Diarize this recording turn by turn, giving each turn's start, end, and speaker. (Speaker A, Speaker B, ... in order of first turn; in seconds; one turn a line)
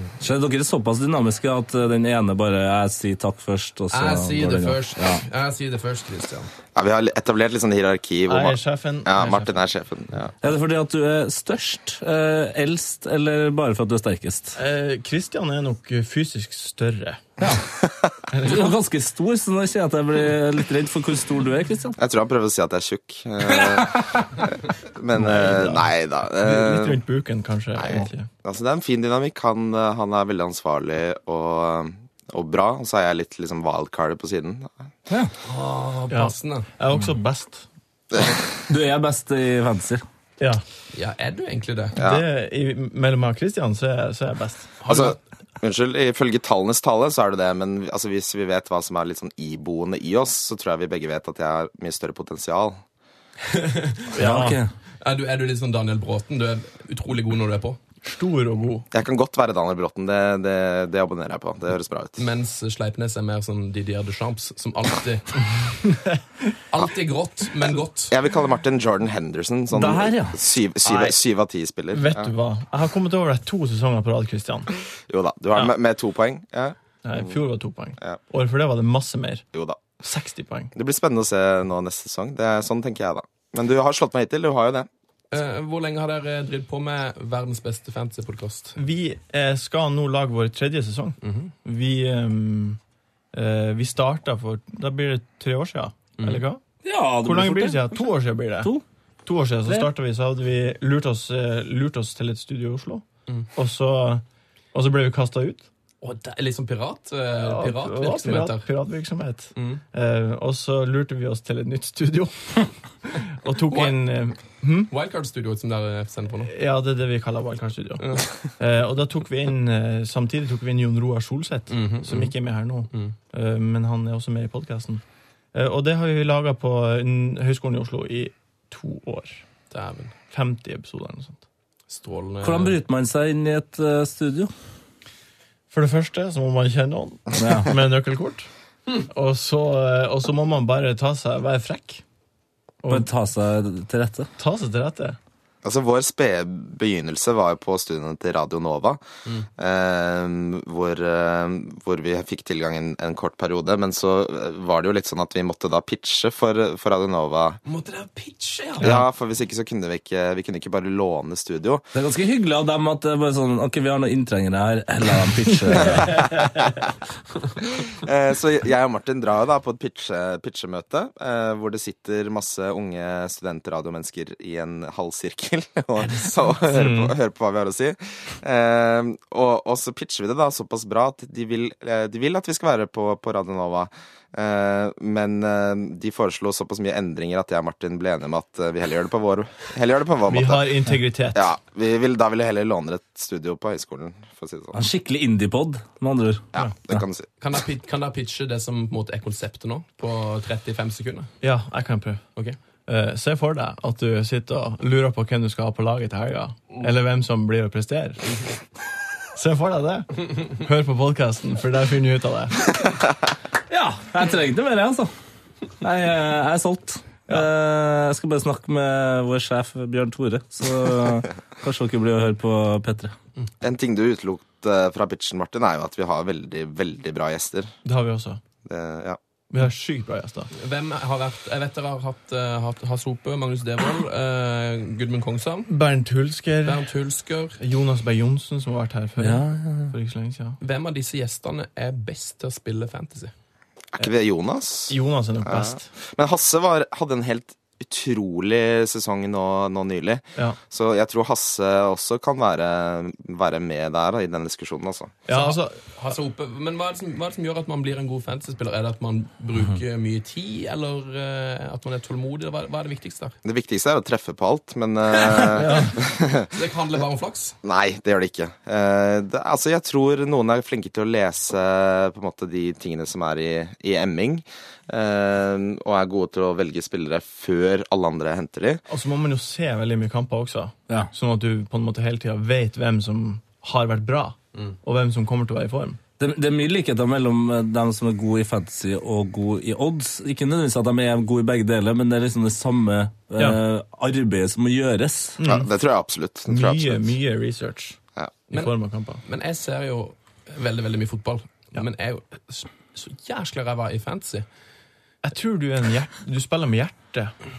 Speaker A: 0.2-5.2
Speaker B: 3.9-6.5
Speaker C: 6.8-10.3
Speaker D: 8.3-9.6
Speaker A: 10.4-14.6
Speaker D: 14.6-17.3
Speaker A: 17.4-17.7
Speaker C: 17.7-18.2
Speaker D: 18.3-18.8
Speaker A: 18.4-22.0
Speaker C: 22.0-27.0
Speaker A: 23.9-24.3
Speaker D: 25.1-25.8
Speaker D: 26.4-28.3
Speaker C: 27.8-34.7
Speaker B: 35.4-36.7
Speaker D: 36.1-37.7
Speaker C: 38.1-38.4
Speaker A: 38.7-40.0
Speaker B: 40.9-42.0
Speaker C: 42.0-42.3
Speaker D: 42.0-45.0
Speaker B: 44.8-45.2
Speaker C: 44.9-52.8
Speaker B: 53.5-54.2
Speaker D: 54.2-54.6
Speaker A: 54.2-54.7
Speaker B: 55.0-57.8
Speaker D: 58.0-58.9
Speaker C: 58.9-62.2
Speaker B: 62.2-65.8
Speaker B: 66.7-68.2
Speaker C: 68.1-72.3
Speaker A: 69.7-70.4
Speaker D: 71.9-74.7
Speaker C: 75.1-77.4
Speaker D: 77.0-79.5
Speaker C: 79.5-80.0
Speaker D: 80.0-80.7
Speaker C: 80.8-84.9
Speaker B: 85.3-88.8
Speaker D: 88.8-92.8
Speaker B: 91.2-91.5
Speaker D: 93.3-96.6
Speaker B: 96.2-96.4
Speaker A: 96.8-98.1
Speaker D: 97.2-98.7
Speaker D: 99.2-105.7
Speaker A: 99.7-99.9
Speaker B: 106.0-108.7
Speaker D: 107.4-114.9
Speaker B: 109.6-109.8
Speaker B: 113.7-114.1
Speaker B: 114.9-116.5
Speaker D: 116.5-118.0
Speaker B: 118.0-118.3
Speaker D: 118.6-125.0
Speaker B: 121.7-122.3
Speaker D: 125.5-129.4
Speaker B: 129.7-130.1
Speaker D: 130.3-131.4
Speaker B: 131.9-132.8
Speaker A: 132.4-134.5
Speaker D: 135.7-142.0
Speaker A: 137.3-137.8
Speaker D: 142.8-143.1
Speaker A: 142.9-144.3
Speaker D: 144.4-145.2
Speaker C: 145.6-149.0
Speaker C: 149.6-157.6
Speaker B: 157.7-158.9
Speaker C: 158.8-161.8
Speaker A: 161.9-166.3
Speaker C: 165.8-166.5
Speaker C: 167.6-194.8
Speaker B: 176.0-176.6
Speaker D: 176.7-177.1
Speaker D: 190.3-191.5
Speaker A: 194.7-197.0
Speaker C: 196.5-197.3
Speaker B: 197.4-201.3
Speaker D: 201.4-202.2
Speaker D: 202.9-208.2
Speaker D: 209.3-212.8
Speaker A: 213.7-215.1
Speaker A: 215.8-223.1
Speaker C: 223.6-227.7
Speaker D: 227.8-228.4
Speaker C: 228.7-229.2
Speaker D: 229.5-230.5
Speaker B: 230.5-235.7
Speaker D: 235.7-236.9
Speaker B: 236.7-237.6
Speaker D: 237.6-240.6
Speaker A: 239.2-240.0
Speaker B: 240.6-243.3
Speaker C: 243.9-255.2
Speaker D: 244.9-245.8
Speaker D: 255.3-255.8
Speaker B: 255.3-263.4
Speaker C: 263.4-266.5
Speaker B: 265.1-267.6
Speaker D: 265.6-266.0
Speaker C: 267.6-278.8
Speaker D: 278.9-286.0
Speaker A: 286.2-295.4
Speaker D: 295.4-295.7
Speaker C: 295.4-297.1
Speaker D: 296.5-298.0
Speaker B: 298.5-304.5
Speaker D: 298.5-299.2
Speaker D: 305.2-307.3